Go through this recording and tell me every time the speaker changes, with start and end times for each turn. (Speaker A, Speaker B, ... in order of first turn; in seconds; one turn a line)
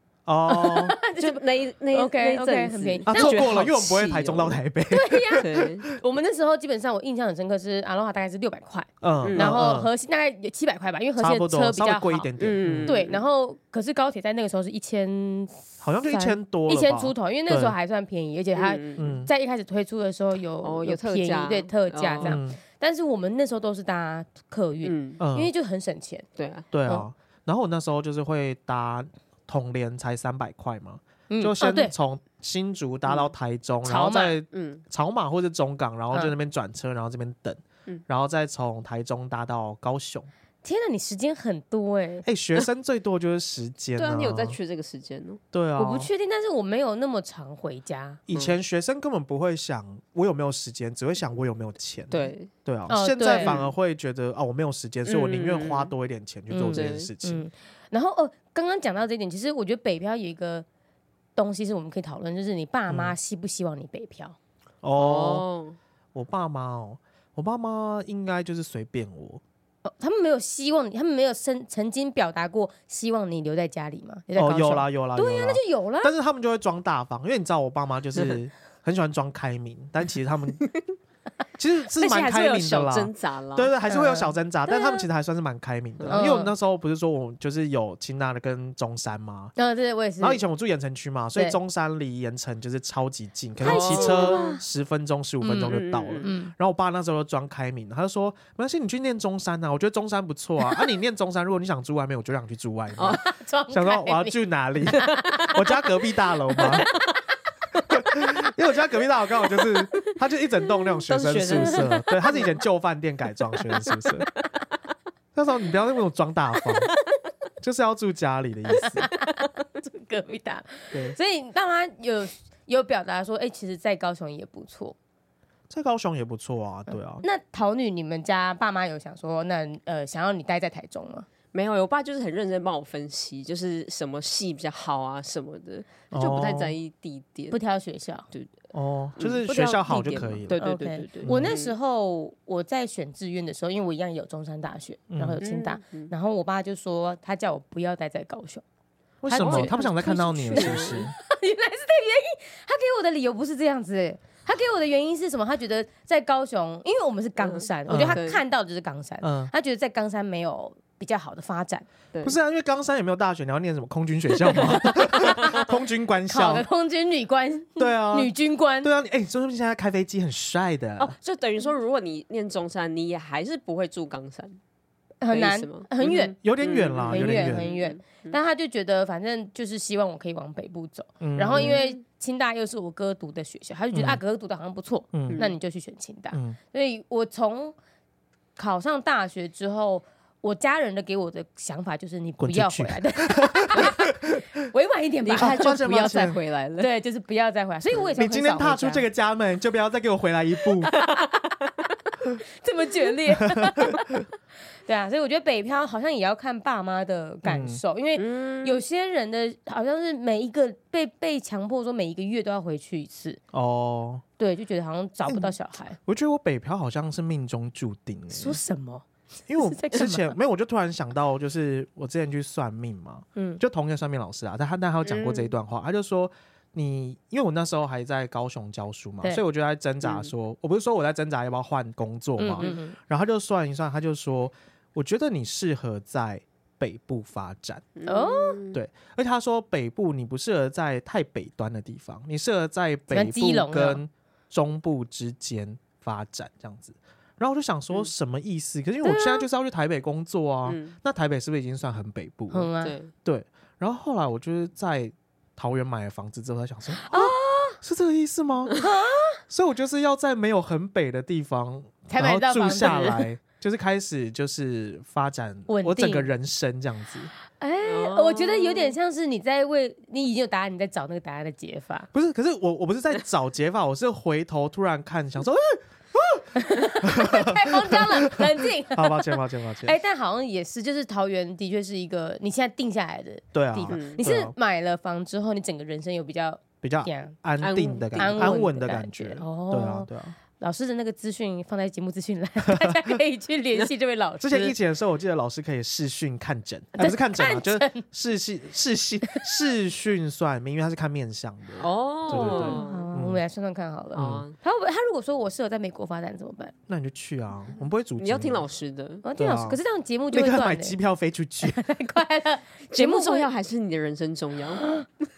Speaker A: 0.2-1.0
Speaker B: 0.5-3.5
Speaker C: 1.1-4.6
Speaker A: 3.1-5.8
Speaker B: 4.9-12.3
Speaker C: 5.4-5.9
Speaker A: 9.0-9.9
Speaker C: 9.2-9.5
Speaker A: 11.2-12.9
Speaker C: 12.4-13.2
Speaker B: 12.8-26.2
Speaker A: 15.8-17.8
Speaker C: 18.5-19.1
Speaker A: 19.0-19.3
Speaker C: 20.6-22.4
Speaker A: 22.2-22.6
Speaker C: 24.8-25.2
Speaker A: 25.2-25.5
Speaker C: 26.4-26.7
Speaker A: 26.7-40.3
Speaker B: 31.3-31.9
Speaker B: 33.9-34.4
Speaker C: 34.5-34.8
Speaker B: 40.6-42.3
Speaker A: 42.2-44.6
Speaker C: 44.0-45.4
Speaker A: 45.5-46.1
Speaker B: 45.8-48.2
Speaker A: 48.3-57.4
Speaker C: 52.1-52.5
Speaker B: 52.9-53.5
Speaker C: 53.4-53.7
Speaker C: 55.0-55.9
Speaker B: 56.5-60.6
Speaker C: 56.7-57.1
Speaker B: 61.4-64.4
Speaker A: 62.9-63.1
Speaker A: 64.8-65.5
Speaker C: 65.0-65.8
Speaker A: 66.1-69.4
Speaker B: 69.8-76.1
Speaker A: 74.4-80.6
Speaker A: 81.6-89.5
Speaker C: 82.0-83.7
Speaker B: 83.9-85.0
Speaker C: 86.0-86.3
Speaker B: 86.1-86.5
Speaker B: 89.5-90.4
Speaker A: 90.2-106.9
Speaker B: 93.6-94.6
Speaker C: 93.6-94.6
Speaker B: 95.4-96.5
Speaker C: 95.7-96.3
Speaker B: 103.1-104.4
Speaker B: 104.9-105.5
Speaker C: 105.0-105.5
Speaker A: 107.9-114.3
Speaker C: 111.1-112.5
Speaker A: 115.3-116.9
Speaker A: 117.6-119.1
Speaker B: 118.8-125.0
Speaker A: 125.7-127.2
Speaker B: 127.2-131.3
Speaker C: 131.5-137.6
Speaker A: 136.1-136.8
Speaker B: 137.5-138.3
Speaker A: 138.7-140.6
Speaker C: 139.2-141.8
Speaker B: 140.5-148.6
Speaker A: 141.2-141.5
Speaker A: 145.1-145.4
Speaker C: 145.4-146.1
Speaker A: 149.2-151.1
Speaker B: 149.3-161.9
Speaker C: 149.4-149.8
Speaker C: 150.5-151.1
Speaker C: 157.4-158.4
Speaker A: 157.9-158.2
Speaker A: 159.2-159.5
Speaker A: 162.2-166.7
Speaker B: 164.8-165.6
Speaker C: 165.3-165.6
Speaker B: 166.3-168.9
Speaker A: 167.8-171.1
Speaker C: 171.0-174.6
Speaker B: 175.2-176.4
Speaker C: 175.3-178.4
Speaker A: 176.4-177.7
Speaker B: 177.1-187.8
Speaker A: 181.2-181.8
Speaker C: 181.5-182.0
Speaker A: 183.9-184.2
Speaker A: 185.1-185.4
Speaker C: 185.3-185.6
Speaker A: 186.3-186.6
Speaker B: 188.6-199.1
Speaker A: 192.4-194.5
Speaker C: 195.2-196.9
Speaker A: 195.4-196.4
Speaker A: 198.2-200.9
Speaker C: 200.9-201.7
Speaker B: 202.6-204.0
Speaker A: 203.4-204.2
Speaker B: 204.9-213.4
Speaker A: 207.4-207.8
Speaker C: 208.2-208.8
Speaker A: 213.5-214.2
Speaker B: 214.4-216.0
Speaker A: 215.3-215.5
Speaker A: 216.1-218.6
Speaker B: 218.3-219.0
Speaker A: 219.5-237.9
Speaker B: 219.6-220.3
Speaker B: 223.4-223.6
Speaker C: 225.0-225.5
Speaker C: 230.0-230.3
Speaker B: 232.4-232.9
Speaker C: 237.9-238.8
Speaker B: 238.1-238.6
Speaker A: 238.7-252.7
Speaker B: 243.1-244.0
Speaker B: 249.0-249.5
Speaker C: 250.7-250.9
Speaker B: 252.5-252.9
Speaker C: 252.8-253.1
Speaker A: 253.2-258.8
Speaker B: 257.0-257.8
Speaker B: 258.8-259.4
Speaker A: 259.5-267.3
Speaker B: 262.1-263.2
Speaker C: 262.9-263.1
Speaker B: 265.7-266.3
Speaker B: 267.6-272.1
Speaker C: 267.8-268.9
Speaker A: 272.1-280.0
Speaker B: 276.5-287.4
Speaker A: 283.5-284.5
Speaker C: 283.9-284.2
Speaker A: 286.8-290.4
Speaker C: 287.6-288.6
Speaker B: 288.1-294.8
Speaker A: 292.6-293.2
Speaker A: 294.4-303.4
Speaker B: 297.0-298.0
Speaker C: 301.8-303.1
Speaker B: 302.3-306.7
Speaker C: 304.1-304.5
Speaker A: 304.1-304.4
Speaker A: 306.9-308.6
Speaker C: 308.2-309.2
Speaker B: 309.2-311.0
Speaker A: 309.4-309.8
Speaker A: 310.3-311.8
Speaker B: 311.6-313.5
Speaker C: 312.9-314.9